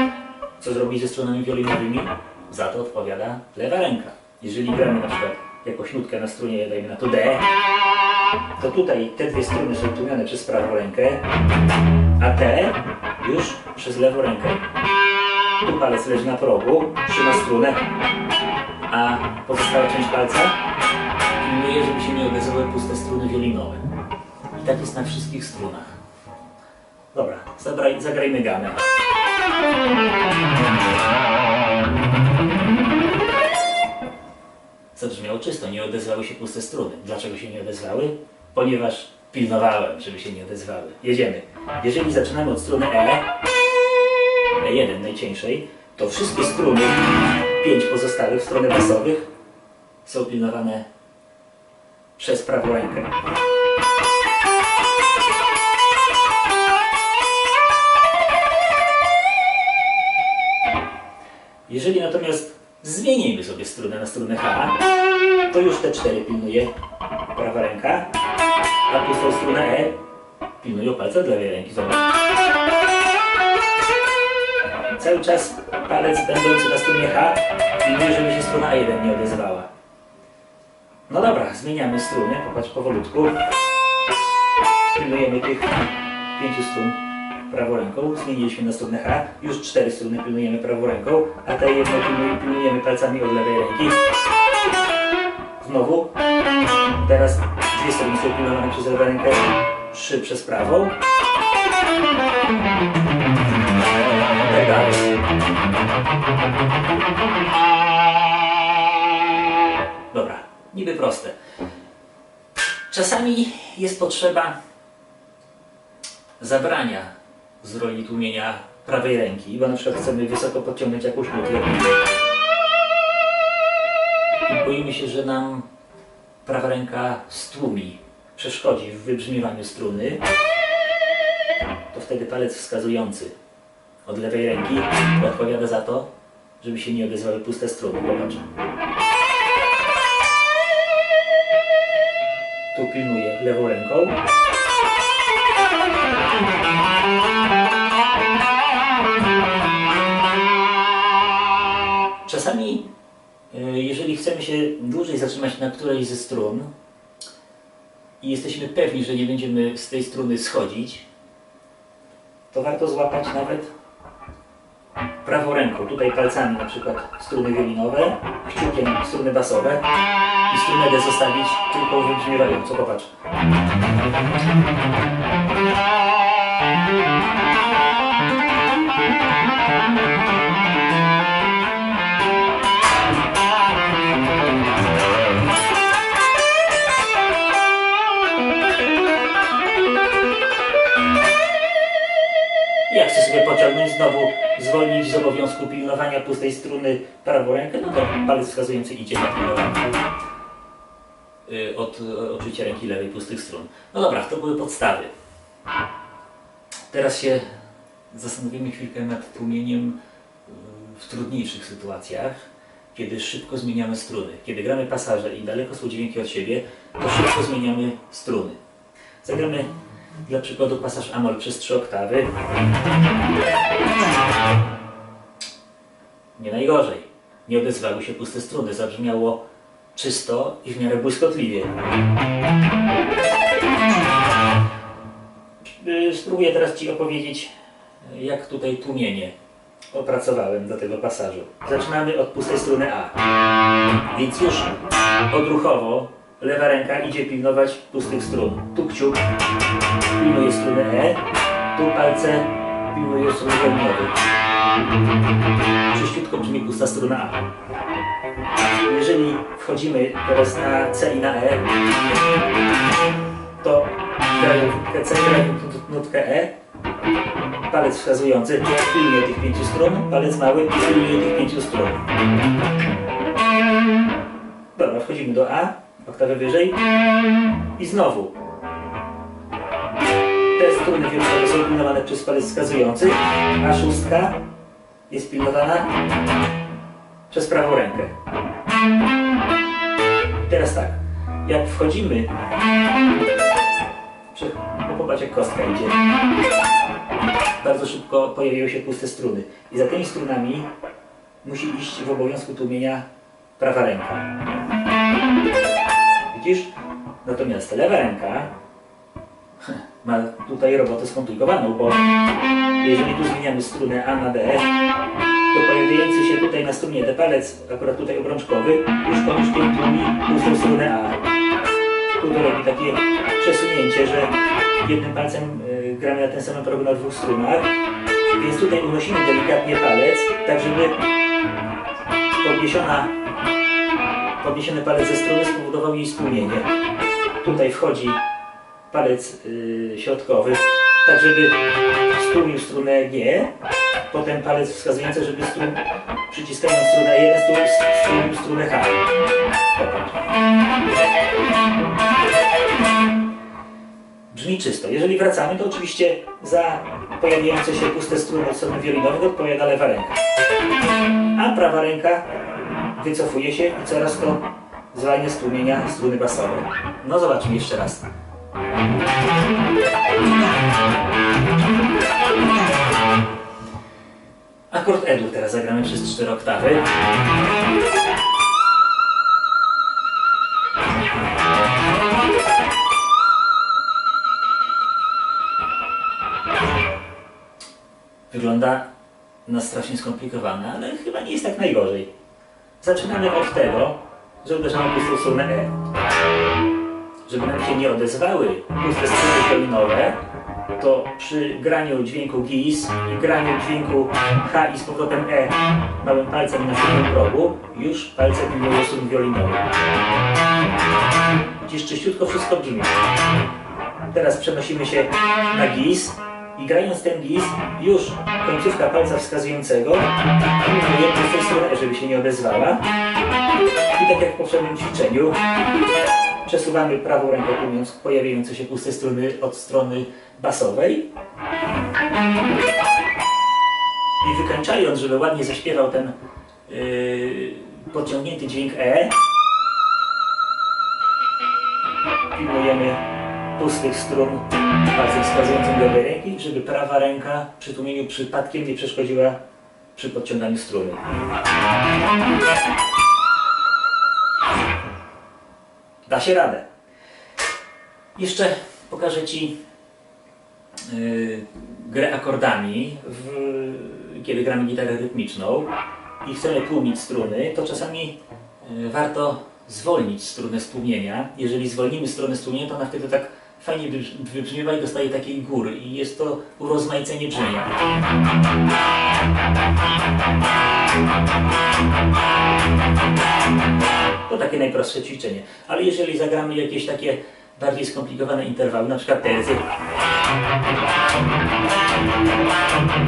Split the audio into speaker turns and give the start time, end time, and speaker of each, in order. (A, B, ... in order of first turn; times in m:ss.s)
0:00.6-0:07.4 A
0:08.6-0:11.2 A
0:12.2-0:14.6 A
0:15.6-0:17.8 A
0:18.9-0:20.6 A
0:21.4-0:23.9 A
0:24.6-0:25.9 A
0:27.1-0:28.9 A
0:34.9-0:43.2 A
0:44.6-0:49.2 A
0:50.0-0:50.8 A
0:52.2-0:53.1 A
1:01.7-1:04.8 A
1:05.5-1:06.7 A
1:07.3-1:08.1 A
1:08.9-1:10.0 A
1:10.6-1:12.0 A
1:15.0-1:19.7 A
1:21.1-1:23.3 A
1:24.9-1:34.0 A
1:35.6-1:36.1 A
1:37.0-1:40.9 A
1:44.3-1:45.1 A
1:50.1-1:51.3 A
1:52.9-1:54.5 A
1:56.4-2:01.9 A
2:04.4-2:05.6 A
2:06.4-2:10.2 A
2:11.9-2:13.3 A
2:14.0-2:16.1 A
2:16.6-2:18.4 A
2:22.7-2:24.2 A
2:32.2-2:32.9 A
2:33.5-2:36.7 A
2:38.2-2:41.0 A
2:42.5-2:43.7 A
2:45.2-2:49.8 A
2:50.5-2:53.1 A
3:12.9-3:19.8 A
3:21.5-3:25.1 A
3:26.9-3:27.4 A
3:28.1-3:32.3 A
3:32.9-3:38.6 A
3:39.2-3:39.7 A
3:40.2-3:42.3 A
3:46.4-3:49.4 A
3:49.9-3:51.7 A
3:55.7-3:57.5 A
3:58.0-3:59.3 A
3:59.9-4:03.2 A
4:04.1-4:04.8 A
4:05.3-4:09.2 A
4:10.2-4:11.2 A
4:11.7-4:14.1 A
4:15.9-4:17.4 A
4:18.8-4:21.7 A
4:23.6-4:26.5 A
4:27.7-4:32.0 A
4:34.7-4:36.8 A
4:37.8-4:38.3 A
4:40.6-4:44.4 A
4:45.1-4:45.9 A
4:47.3-4:48.1 A
4:50.4-4:52.3 A
4:54.3-4:56.0 A
4:57.6-5:00.7 A
5:01.4-5:03.0 A
5:03.6-5:04.6 A
5:06.3-5:06.7 A
5:07.2-5:08.5 A
5:09.6-5:12.0 A
5:12.8-5:14.7 A
5:15.5-5:21.2 A
5:22.2-5:27.7 A
5:28.4-5:31.0 A
5:32.4-5:33.1 A
5:34.4-5:36.6 A
5:37.4-5:38.2 A
5:38.9-5:41.6 A
5:42.1-5:43.5 A
5:44.1-5:49.0 A
5:49.7-5:50.1 A
5:54.3-6:00.2 A
6:01.3-6:02.3 A
6:02.8-6:08.0 A
6:14.7-6:16.9 A
6:28.3-6:28.9 A
6:29.4-6:32.1 A
6:32.8-6:35.8 A
6:37.2-6:40.2 A
6:40.8-6:49.7 A
6:51.6-6:53.0 A
6:54.1-7:02.8 A
7:03.9-7:05.4 A
7:06.4-7:11.0 A
7:14.2-7:16.1 A
7:16.7-7:19.1 A
7:22.3-7:23.0 A
7:23.6-7:29.4 A
7:29.9-7:31.0 A
7:36.0-7:36.6 A
7:38.2-7:39.5 A
7:40.8-7:45.7 A
7:46.2-7:57.7 A
8:04.3-8:09.6 A